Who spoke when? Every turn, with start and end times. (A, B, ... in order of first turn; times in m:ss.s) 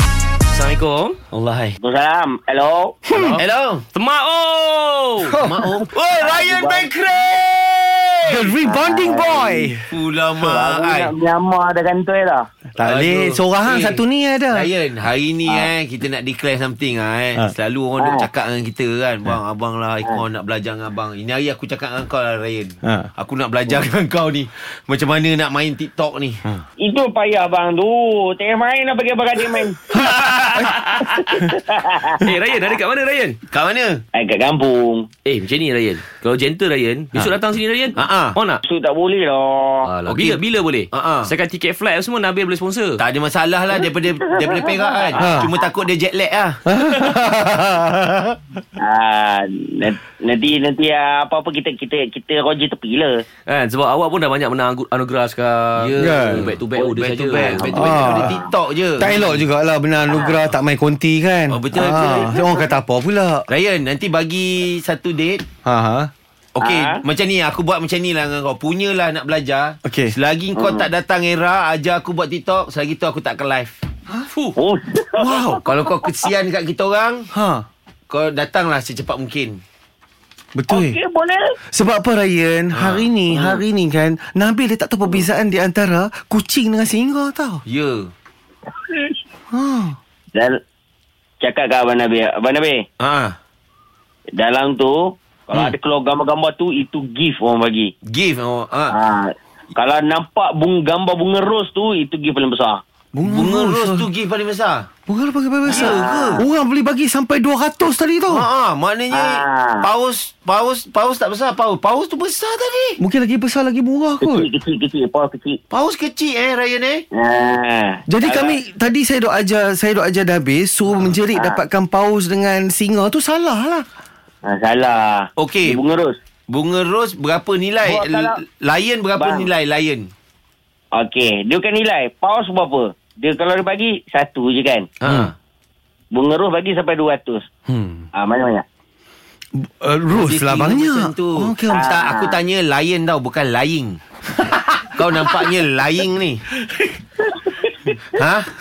0:00.5-0:01.2 A
0:01.3-0:01.8 B
0:01.8-0:03.0 C
0:03.1-0:03.4 D
0:03.1-0:03.4 A
0:03.4-0:03.8 B
0:03.9-0:05.4 A
0:05.2-0:05.8 D
0:05.4-0:08.5 B
0:06.2-0:06.9 C
0:08.3-0:09.9 D
0:08.6-0:09.7 C
0:09.9-0:11.1 B
0:10.4-0:12.5 C
0:12.8-0:14.7 D
0:12.8-0:26.4 B
0:18.0-0:18.3 C
0:22.8-0:23.1 D
0:26.8-0:29.8 C
0:29.9-0:30.7 D
0:30.0-0:31.5 A
0:31.3-0:32.3 C
0:32.2-0:33.4 A
0:33.5-0:34.0 B
0:34.1-0:35.1 C
0:35.2-0:38.6 A
0:38.0-0:38.4 B
0:38.7-0:39.9 C
0:39.8-0:43.0 A
0:40.0-0:41.3 B
0:43.0-0:46.7 B
0:43.8-0:45.6 C
0:45.2-0:45.5 D
0:46.7-0:48.4 D
0:48.8-0:53.2 C
0:53.5-0:57.8 A
0:55.8-0:59.4 B
0:56.0-0:56.5 D
0:57.4-0:58.5 C
0:57.6-0:58.4 D
0:59.0-1:03.5 D
1:00.1-1:00.4 C
1:01.5-1:02.4 B
1:02.2-1:02.5 C
1:03.5-1:05.4 B
1:05.6-1:06.1 D
1:06.5-1:13.8 B
1:06.6-1:07.0 C
1:09.8-1:10.1 D
1:10.6-1:10.9 C
1:14.3-1:14.6 A
1:14.6-1:15.5 C
1:15.2-1:15.6 D
1:15.6-1:17.3 B
1:17.3-1:17.6 D
1:18.1-1:19.6 B
1:20.5-1:21.0 D
1:20.7-1:21.5 C
1:21.7-1:27.6 D
1:22.7-1:23.6 B
1:27.7-1:28.1 B
1:28.9-1:29.1 C
1:29.5-1:30.0 D
1:31.4-1:32.8 C
1:33.0-1:33.4 B
1:34.4-1:37.9 C
1:38.0-1:38.9 B
1:38.9-1:42.8 C
1:43.1-1:44.1 D
1:43.2-1:44.9 B
1:45.1-1:48.4 D
1:45.7-1:46.4 B
1:45.7-1:46.4 C
1:48.3-1:53.0 B
1:49.1-1:49.8 C
1:53.0-1:54.5 D
1:54.2-1:55.6 C
1:55.7-1:57.0 B
1:57.2-1:58.5 C
1:58.1-2:03.8 D
2:01.3-2:01.6 C
2:04.4-2:06.2 C
2:05.4-2:05.8 B
2:06.5-2:10.1 B
2:07.8-2:08.4 C
2:09.2-2:09.5 C
2:10.9-2:14.9 C
2:15.0-2:15.3 B
2:16.1-2:17.4 C
2:17.7-2:18.0 D
2:18.1-2:18.6 C
2:19.6-2:21.8 D
2:20.1-2:24.0 B
2:21.7-2:22.4 C
2:24.9-2:26.4 B
2:27.4-2:27.9 C
2:28.2-2:28.5 B